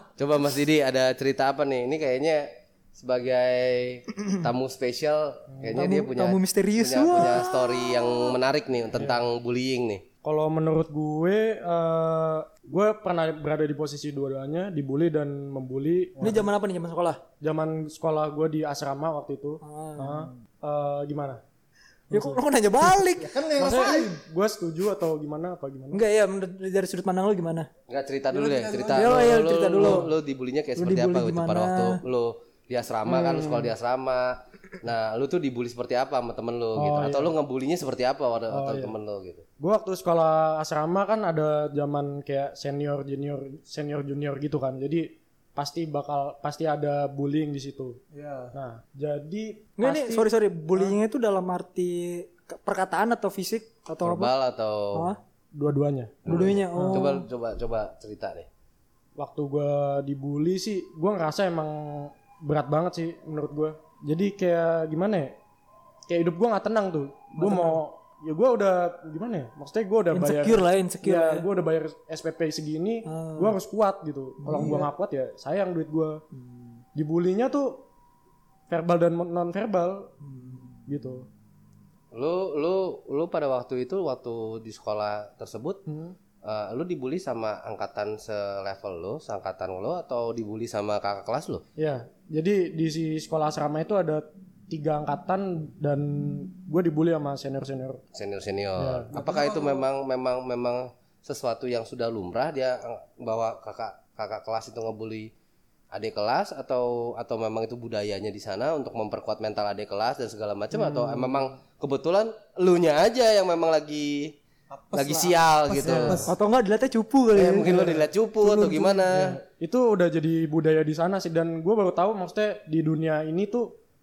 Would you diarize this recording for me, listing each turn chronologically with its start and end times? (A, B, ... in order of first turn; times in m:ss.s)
0:00.2-0:10.0 A
0:05.6-0:05.8 B
0:05.7-0:08.2 C
0:09.0-0:09.2 B
0:10.2-0:16.3 B
0:16.2-0:16.5 D
0:16.2-0:17.2 C
0:17.4-0:21.4 B
0:19.6-0:20.2 C
0:22.1-0:22.4 B
0:22.1-0:23.3 C
0:23.2-0:24.2 D
0:23.6-0:26.0 B
0:25.9-0:27.7 C
0:27.9-0:39.4 A
0:28.3-0:29.4 D
0:29.0-0:30.1 C
0:29.7-0:30.1 B
0:30.8-0:32.0 C
0:33.1-0:33.7 B
0:36.8-0:37.3 B
0:38.5-0:38.9 B
0:39.6-0:48.0 B
0:48.1-0:48.6 D
0:48.5-0:51.0 B
0:49.8-0:54.3 C
0:54.0-0:55.1 A
0:55.6-0:57.1 B
0:56.2-0:58.5 A
0:56.3-0:57.2 C
0:59.2-1:05.4 B
1:06.1-1:16.2 B
1:07.4-1:07.8 C
1:10.1-1:11.5 C
1:13.1-1:13.6 C
1:14.4-1:14.9 C
1:16.4-1:16.7 C
1:17.0-1:17.8 B
1:18.7-1:20.1 B
1:20.2-1:20.7 C
1:20.9-1:21.3 B
1:22.1-1:25.8 A
1:25.9-1:26.2 B
1:26.4-1:31.6 A
1:31.8-1:38.0 B
1:38.1-1:45.3 A
1:38.8-1:39.1 B
1:39.1-1:39.8 D
1:45.9-1:54.4 A
1:50.7-1:51.5 B
1:54.7-1:56.3 D
1:54.9-1:56.3 A
1:55.9-1:56.2 B
1:56.3-1:59.0 C
1:57.3-1:59.4 A
1:59.1-2:03.7 B